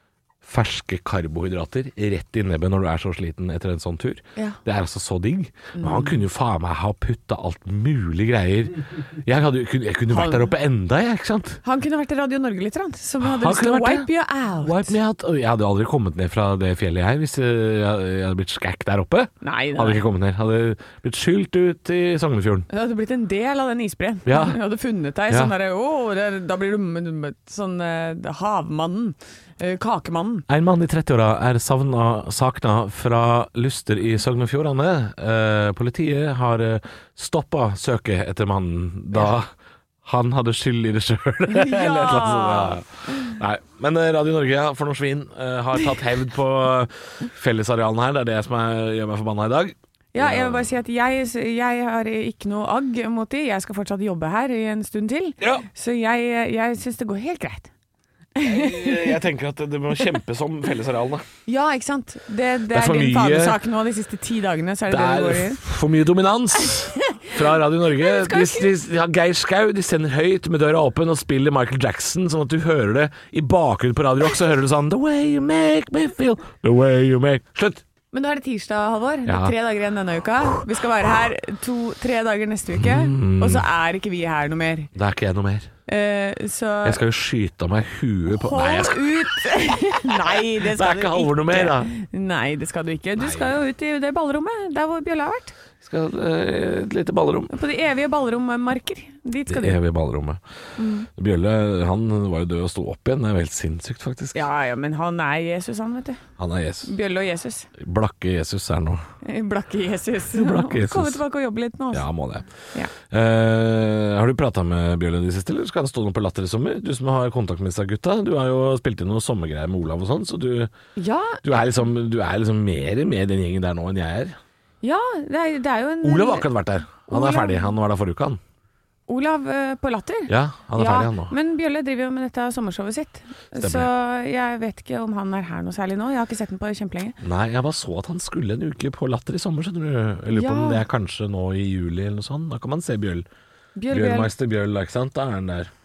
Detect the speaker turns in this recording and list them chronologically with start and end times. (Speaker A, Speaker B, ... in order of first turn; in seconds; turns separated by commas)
Speaker A: 0.4-11.6, Speaker B: 5.8-6.2, Speaker B: 10.1-10.5, Speaker B: 11.6-15.0, Speaker A: 13.2-14.1, Speaker A: 14.6-22.7, Speaker B: 19.4-20.0, Speaker B: 22.7-30.5, Speaker A: 24.3-24.6, Speaker A: 30.5-39.5, Speaker A: 40.0-50.7, Speaker B: 41.5-43.4, Speaker B: 50.1-57.7, Speaker B: 58.4-59.2, Speaker A: 58.4-61.3, Speaker B: 61.5-65.6, Speaker A: 62.7-63.6, Speaker A: 64.9-77.8, Speaker B: 66.7-67.4, Speaker B: 67.9-68.7, Speaker B: 78.1-84.9, Speaker A: 79.3-79.5, Speaker A: 82.8-83.7, Speaker A: 84.9-85.7, Speaker B: 85.9-87.0, Speaker A: 86.8-89.4, Speaker B: 88.3-95.5, Speaker A: 90.0-91.9, Speaker A: 93.2-93.6, Speaker A: 95.8-97.5, Speaker B: 97.5-99.8, Speaker A: 99.5-100.4, Speaker B: 100.8-101.1, Speaker A: 101.1-104.4, Speaker B: 104.3-106.2, Speaker A: 106.4-106.9, Speaker B: 106.8-107.7, Speaker A: 107.8-109.0, Speaker B: 109.2-112.1, Speaker A: 110.3-111.2, Speaker A: 111.9-120.7, Speaker B: 121.0-121.4, Speaker A: 121.4-124.4, Speaker B: 124.8-126.5, Speaker A: 126.0-128.4, Speaker B: 127.1-127.7, Speaker B: 129.1-137.2, Speaker A: 130.3-131.3, Speaker A: 133.6-133.9, Speaker A: 137.2-143.3, Speaker B: 140.3-140.8, Speaker B: 143.8-144.3, Speaker A: 143.9-145.7